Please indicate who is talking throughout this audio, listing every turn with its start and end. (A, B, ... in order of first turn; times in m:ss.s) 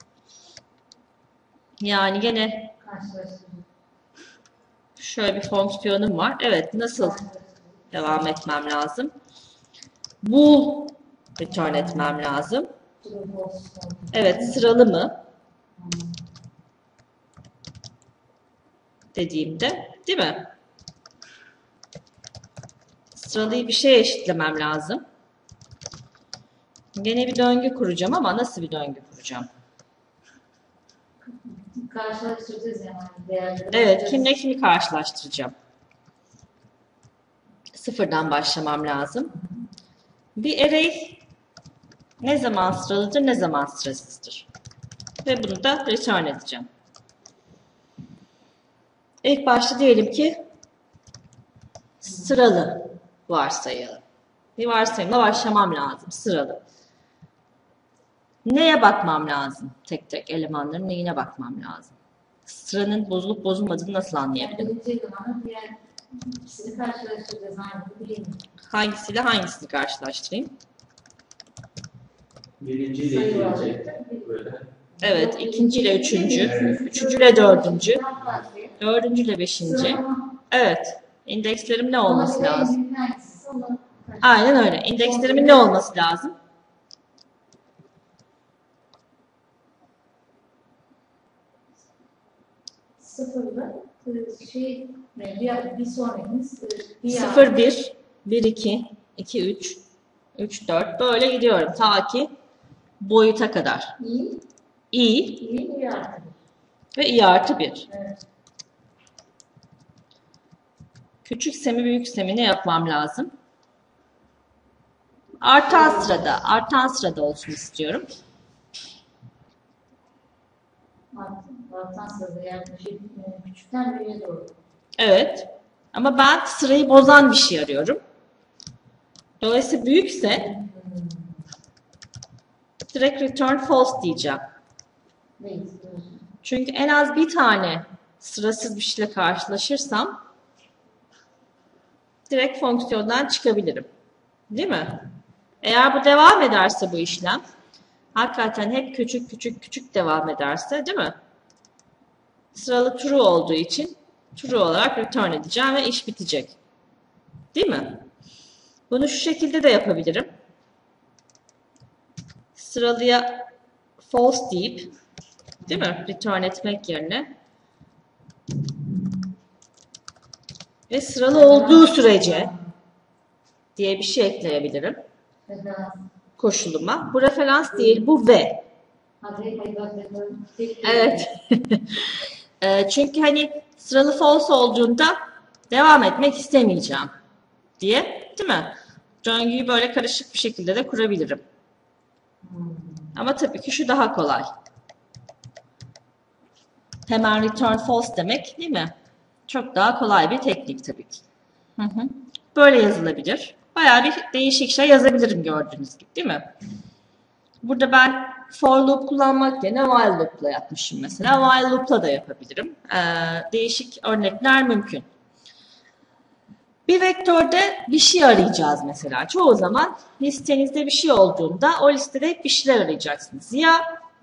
0:01.8-0:02.7 A
0:02.8-0:03.6 B
0:05.0-0:07.2 A
0:07.0-0:08.1 B
0:07.9-0:09.1 A
0:10.2-0:12.7 A
0:13.0-0:14.6 B
0:14.1-0:15.2 A
0:15.8-0:16.1 B
0:19.1-0:20.5 A
0:23.1-0:25.0 A
0:27.0-0:29.5 A
0:31.3-0:34.2 B
0:33.7-0:35.5 A
0:37.7-0:39.3 A
0:40.4-0:41.2 A
0:42.2-0:44.5 A
0:45.2-0:46.7 A
0:49.2-0:50.4 A
0:52.0-0:54.0 A
0:54.6-0:56.6 A
0:58.4-1:01.9 A
1:02.4-1:04.7 A
1:04.4-1:08.4 B
1:08.7-1:10.5 A
1:12.6-1:14.7 C
1:13.0-1:14.2 B
1:15.0-1:18.8 B
1:15.0-1:18.0 A
1:16.3-1:16.8 C
1:18.8-1:22.8 A
1:19.6-1:20.2 B
1:22.0-1:24.3 B
1:24.2-1:26.3 A
1:25.0-1:25.7 B
1:33.0-1:37.5 B
1:37.0-1:39.8 A
1:40.4-1:42.3 A
1:43.0-1:44.0 A
1:44.0-1:44.4 B
1:44.9-1:45.4 A
1:45.4-1:46.4 B
1:47.0-1:47.9 A
1:51.2-1:53.3 A
1:55.4-1:58.1 A
1:55.7-1:56.2 B
2:01.1-2:04.5 B
2:05.0-2:08.0 A
2:09.4-2:10.5 A
2:10.3-2:11.4 B
2:12.9-2:14.4 A
2:15.4-2:16.2 B
2:16.4-2:20.2 A
2:22.3-2:23.9 A
2:24.5-2:25.0 A
2:25.6-2:27.4 A
2:28.1-2:31.2 A
2:32.5-2:36.6 A
2:37.5-2:38.0 A
2:38.9-2:40.3 A
2:42.5-2:43.5 A
2:44.0-2:44.9 A
2:45.7-2:47.3 A
2:50.9-2:52.5 A
2:51.3-2:52.6 B
2:53.8-2:55.0 A
2:55.5-2:56.0 B
2:56.4-2:58.6 A
2:59.2-3:01.3 B
3:00.8-3:02.0 A
3:02.6-3:05.2 A
3:05.7-3:07.1 A
3:07.8-3:11.4 A
3:12.4-3:13.0 B
3:13.1-3:14.5 A
3:17.1-3:18.9 A
3:19.5-3:21.2 A
3:21.8-3:26.5 A
3:27.6-3:35.1 A
3:36.9-3:43.8 A